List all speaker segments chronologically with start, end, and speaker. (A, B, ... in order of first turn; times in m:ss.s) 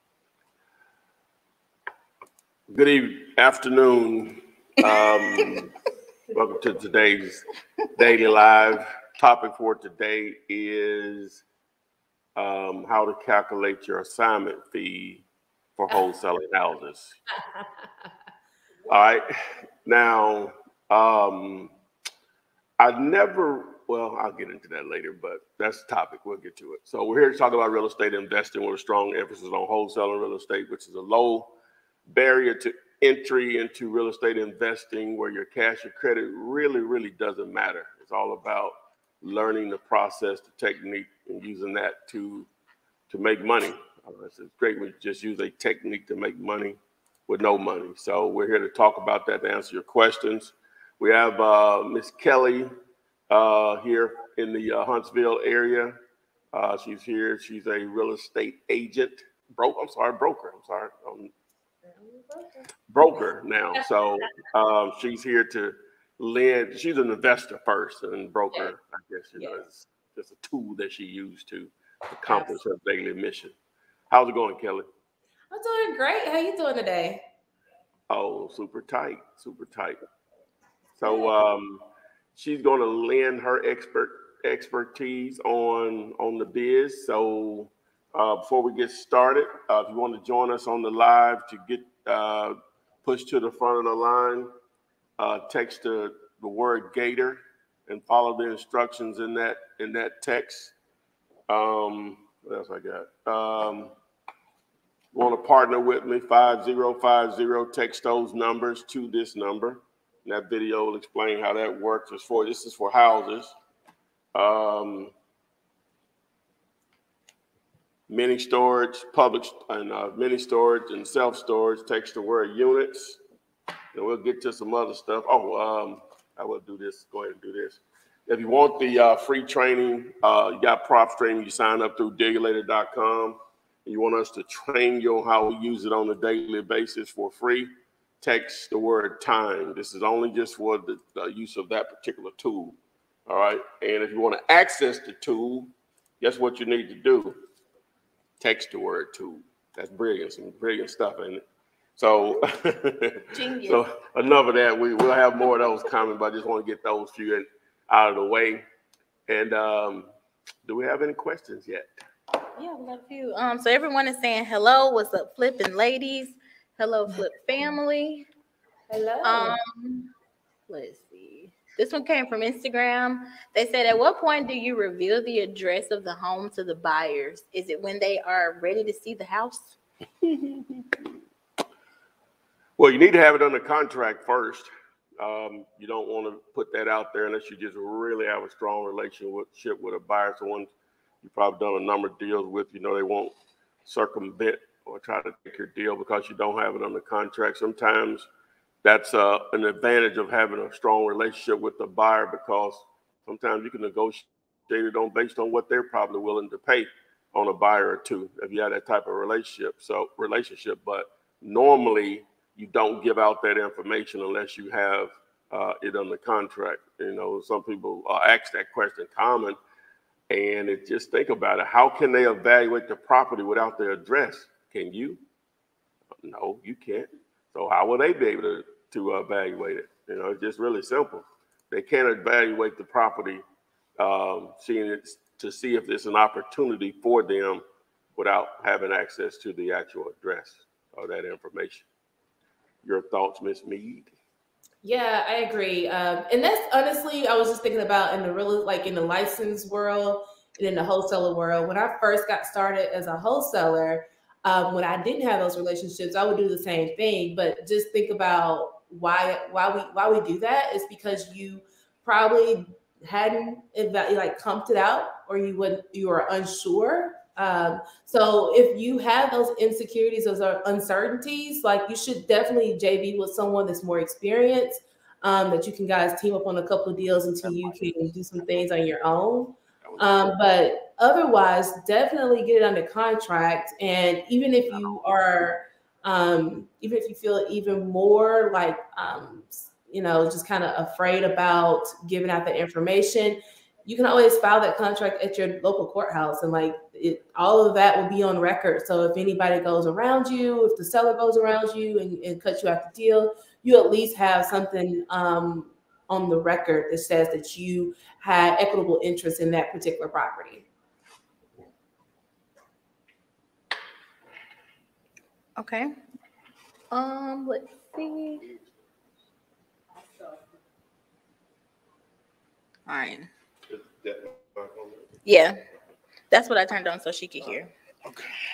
0:02.7-0:05.7 A
0:06.3-0:11.4 A
0:12.4-0:15.2 A
0:15.8-0:17.2 A
0:18.9-0:19.3 A
0:19.8-0:21.7 A
0:22.8-0:31.5 A
0:32.1-0:42.5 A
0:43.1-0:46.8 A
0:47.3-0:52.7 A
0:53.3-0:56.0 A
0:56.5-1:01.3 A
1:02.0-1:02.5 B
1:02.9-1:13.6 A
1:12.3-1:12.6 B
1:14.1-1:14.9 A
1:15.5-1:17.2 B
1:18.1-1:20.0 A
1:21.0-1:21.8 A
1:22.4-1:34.5 A
1:35.2-1:40.7 A
1:41.5-1:43.9 A
1:45.1-1:53.6 A
1:54.4-1:55.1 A
1:58.1-2:03.2 A
2:03.9-2:17.7 A
2:18.2-2:27.4 A
2:28.4-2:31.4 A
2:32.0-2:38.6 A
2:33.3-2:33.8 C
2:39.3-2:40.1 A
2:40.6-2:41.9 A
2:42.6-2:48.3 C
2:48.9-2:49.6 B
2:49.2-2:50.1 C
2:50.7-2:59.8 C
3:00.2-3:01.0 A
3:02.8-3:10.7 A
3:11.2-3:13.3 A
3:13.8-3:18.3 A
3:18.8-3:39.6 A
3:40.3-3:45.2 A
3:46.2-3:53.4 A
3:54.0-3:57.6 A
3:58.2-4:01.9 A
4:02.8-4:04.1 A
4:04.8-5:10.7 B
4:39.8-4:40.2 A
5:15.6-5:15.9 C
5:16.9-5:18.4 C
5:22.9-5:23.3 C
5:23.7-5:25.1 A
5:25.2-5:25.6 C
5:26.3-5:27.7 C